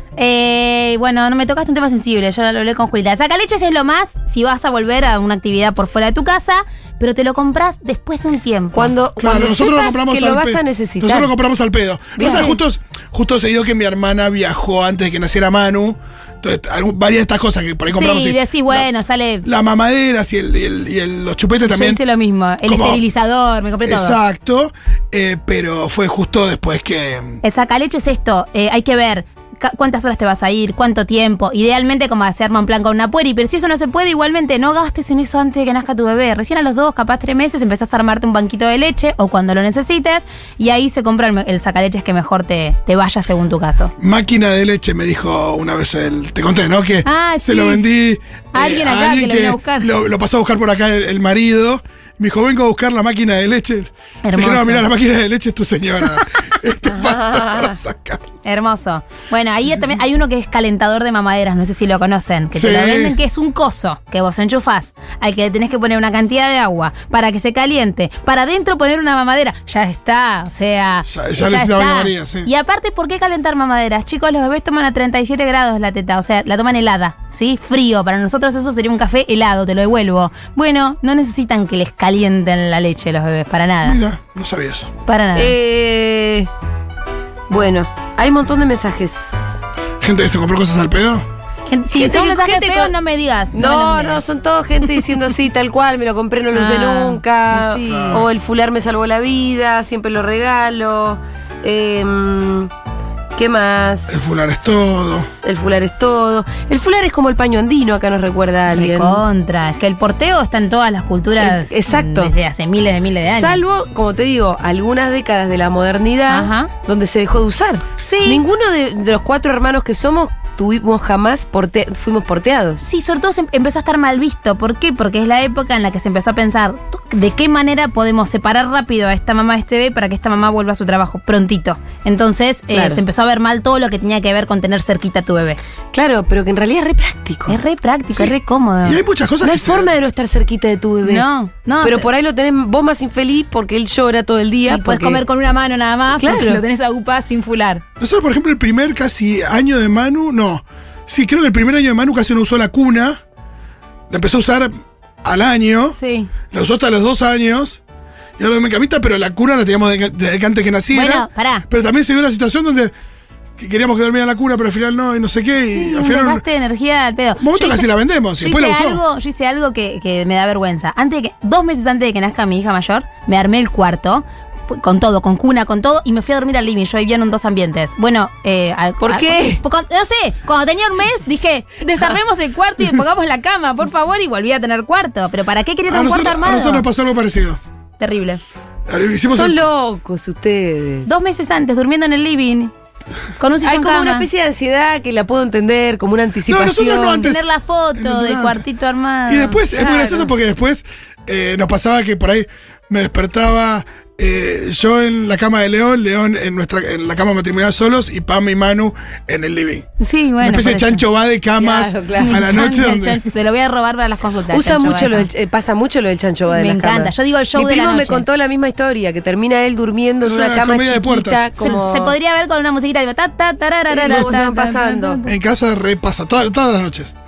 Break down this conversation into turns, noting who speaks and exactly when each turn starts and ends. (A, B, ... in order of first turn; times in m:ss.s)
0:00.2-0:08.9 A
0:08.7-0:11.3 B
0:09.2-0:18.9 C
0:12.2-0:12.6 B
0:12.2-0:12.6 A
0:17.9-0:19.4 A
0:19.4-0:22.0 C
0:21.6-0:24.2 A
0:22.6-0:23.0 C
0:23.8-0:27.4 C
0:27.4-0:43.9 A
0:44.0-0:58.2 C
0:47.0-0:47.8 A
0:48.5-0:49.9 A
0:54.2-0:54.9 A
0:56.9-0:57.8 B
0:58.4-1:24.0 A
1:02.5-1:03.2 C
1:11.0-1:12.5 C
1:23.8-1:24.9 C
1:25.0-1:25.5 A
1:25.3-1:26.5 B
1:27.5-1:29.6 B
1:30.0-1:31.2 C
1:31.7-1:34.2 A
1:31.9-1:32.9 B
1:33.5-1:42.7 B
1:36.5-1:38.2 A
1:37.9-1:38.2 C
1:43.4-1:44.4 B
1:44.1-1:45.3 C
1:45.2-1:49.2 B
1:48.7-1:53.6 A
1:51.4-1:52.3 B
1:53.2-2:02.8 B
1:56.3-1:56.7 A
1:58.0-1:58.4 A
2:02.8-2:15.6 A
2:12.7-2:13.0 B
2:15.9-2:17.6 B
2:17.5-2:19.0 A
2:18.1-2:19.9 C
2:19.4-2:21.2 B
2:21.0-2:22.1 A
2:21.8-2:25.2 B
2:24.7-2:27.8 A
2:26.2-2:26.6 B
2:28.0-2:33.2 C
2:34.1-2:34.7 C
2:35.2-2:36.0 C
2:36.0-2:36.3 A
2:36.5-2:37.8 C
2:38.4-2:42.9 C
2:40.9-2:41.6 A
2:43.6-2:46.4 C
2:45.7-2:47.8 A
2:47.4-2:49.0 C
2:48.4-3:06.8 A
2:59.0-2:59.6 B
3:05.9-3:07.6 C
3:08.0-3:08.4 A
3:08.9-3:09.6 C
3:09.3-3:11.1 B
3:11.0-3:12.7 A
3:13.4-3:14.3 A
3:13.6-3:17.3 B
3:16.5-3:17.4 C
3:17.2-3:20.2 A
3:17.9-3:18.6 C
3:19.3-3:29.9 C
3:19.8-3:20.2 B
3:30.0-3:31.0 A
3:30.4-3:33.2 C
3:31.6-3:32.4 B
3:32.2-3:35.3 A
3:34.5-3:42.1 B
3:36.5-3:38.2 A
3:40.2-3:41.5 C
3:41.6-3:45.3 A
3:43.9-3:45.2 B
3:45.2-3:47.1 C